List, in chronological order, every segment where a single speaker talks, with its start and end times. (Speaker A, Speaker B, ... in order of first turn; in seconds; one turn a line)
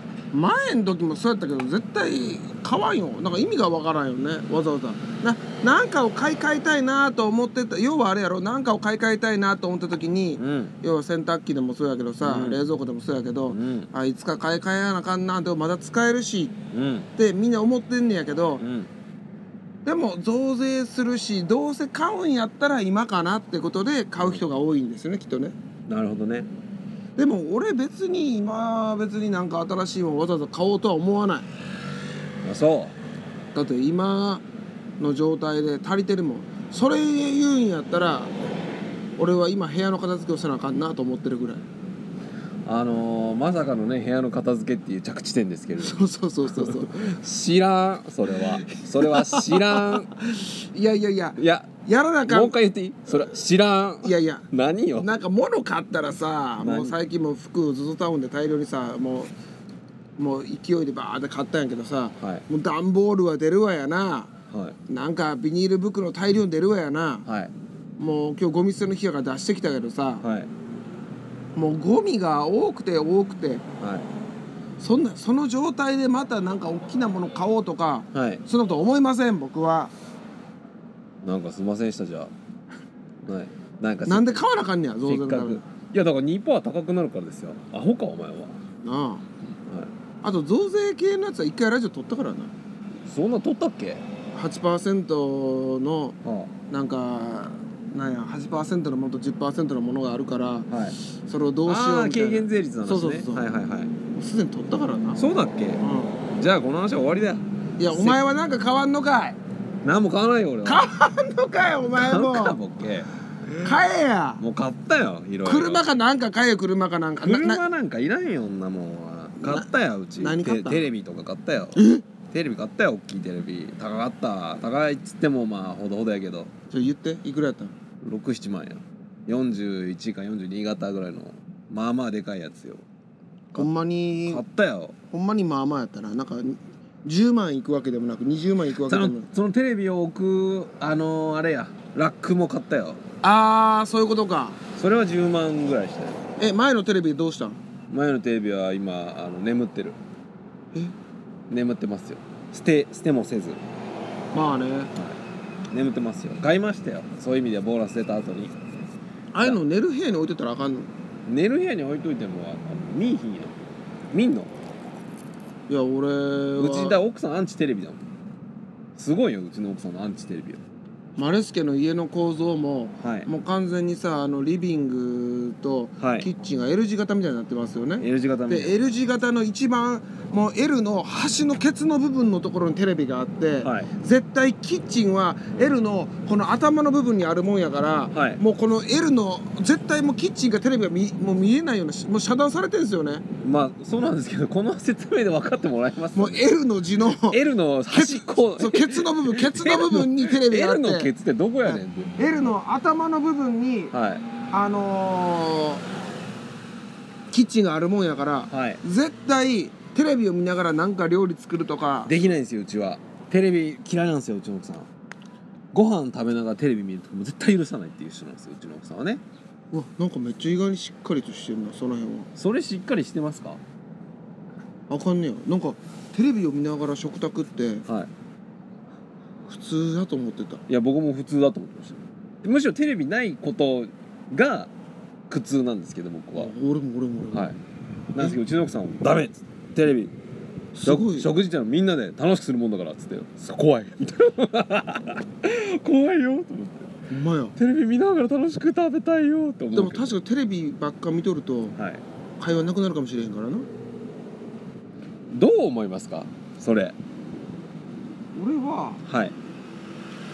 Speaker A: 0.3-16.5
Speaker B: 10.4-10.7
Speaker B: 12.2-12.6
Speaker B: 13.5-13.9
Speaker B: 16.7-17.1
Speaker A: 17.2-18.6
Speaker B: 18.6-18.9
Speaker A: 19.8-25.5
Speaker B: 24.2-24.4
Speaker B: 25.9-26.5
Speaker A: 27.1-31.5
Speaker B: 32.4-32.9
Speaker A: 33.5-34.4
Speaker A: 35.0-38.3
Speaker A: 39.2-41.6
Speaker B: 42.6-50.1
Speaker A: 45.8-46.9
Speaker A: 48.3-52.6
Speaker B: 51.4-51.7
Speaker B: 52.3-55.1
Speaker A: 54.0-59.3
Speaker B: 56.6-57.0
Speaker A: 60.2-64.3
Speaker B: 64.5-64.8
Speaker A: 64.9-67.2
Speaker B: 67.2-67.5
Speaker A: 68.0-70.2
Speaker B: 70.2-70.5
Speaker A: 71.5-73.6
Speaker B: 73.8-74.1
Speaker A: 74.8-79.9
Speaker B: 78.1-78.4
Speaker B: 81.2-82.3
Speaker B: 83.2-84.4
Speaker A: 84.0-85.6
Speaker B: 85.0-88.6
Speaker A: 88.8-89.2
Speaker A: 90.2-92.5
Speaker B: 93.1-94.0
Speaker A: 94.3-96.2
Speaker B: 96.2-96.5
Speaker A: 96.7-103.5
Speaker B: 100.7-101.0
Speaker B: 101.7-103.9
Speaker A: 104.1-105.2
Speaker B: 105.2-105.8
Speaker A: 105.8-106.2
Speaker B: 106.4-108.2
Speaker A: 107.8-109.4
Speaker B: 109.8-110.9
Speaker A: 110.6-112.6
Speaker B: 111.9-113.1
Speaker A: 113.5-114.4
Speaker B: 114.4-115.9
Speaker A: 115.4-117.6
Speaker B: 117.2-126.5
Speaker A: 119.4-119.7
Speaker A: 120.2-120.9
Speaker A: 121.8-122.0
Speaker A: 126.7-127.7
Speaker B: 128.0-132.8
Speaker A: 133.5-134.4
Speaker B: 134.3-134.9
Speaker A: 135.1-139.3
Speaker B: 138.8-143.0
Speaker A: 143.2-144.6
Speaker B: 144.8-146.2
Speaker A: 146.4-147.6
Speaker B: 147.9-150.0
Speaker B: 151.5-153.6
Speaker A: 154.3-154.9
Speaker B: 154.9-155.2
Speaker B: 155.7-158.5
Speaker A: 159.3-160.9
Speaker B: 161.3-163.5
Speaker B: 164.1-164.5
Speaker A: 165.7-167.0
Speaker B: 166.6-168.0
Speaker B: 168.9-170.6
Speaker A: 171.2-193.2
Speaker B: 173.0-173.3
Speaker B: 176.0-176.3
Speaker B: 178.0-178.8
Speaker B: 183.6-183.9
Speaker B: 188.1-188.4
Speaker B: 193.4-196.5
Speaker A: 196.1-201.1
Speaker B: 197.2-202.3
Speaker A: 201.6-203.9
Speaker B: 203.9-204.2
Speaker A: 204.5-205.8
Speaker A: 207.3-212.2
Speaker B: 208.5-208.8
Speaker B: 212.1-214.9
Speaker B: 215.7-219.2
Speaker A: 219.7-222.3
Speaker B: 222.3-223.6
Speaker A: 224.9-227.8
Speaker A: 229.5-230.6
Speaker B: 230.7-234.7
Speaker B: 235.3-236.5
Speaker A: 236.3-237.5
Speaker B: 237.3-237.6
Speaker B: 238.1-240.1
Speaker A: 240.8-241.3
Speaker B: 240.8-246.9
Speaker A: 247.1-247.5
Speaker B: 247.6-250.1
Speaker A: 249.7-251.8
Speaker B: 251.8-252.0
Speaker A: 252.4-253.7
Speaker B: 255.3-256.9
Speaker A: 258.3-259.0
Speaker B: 259.1-259.3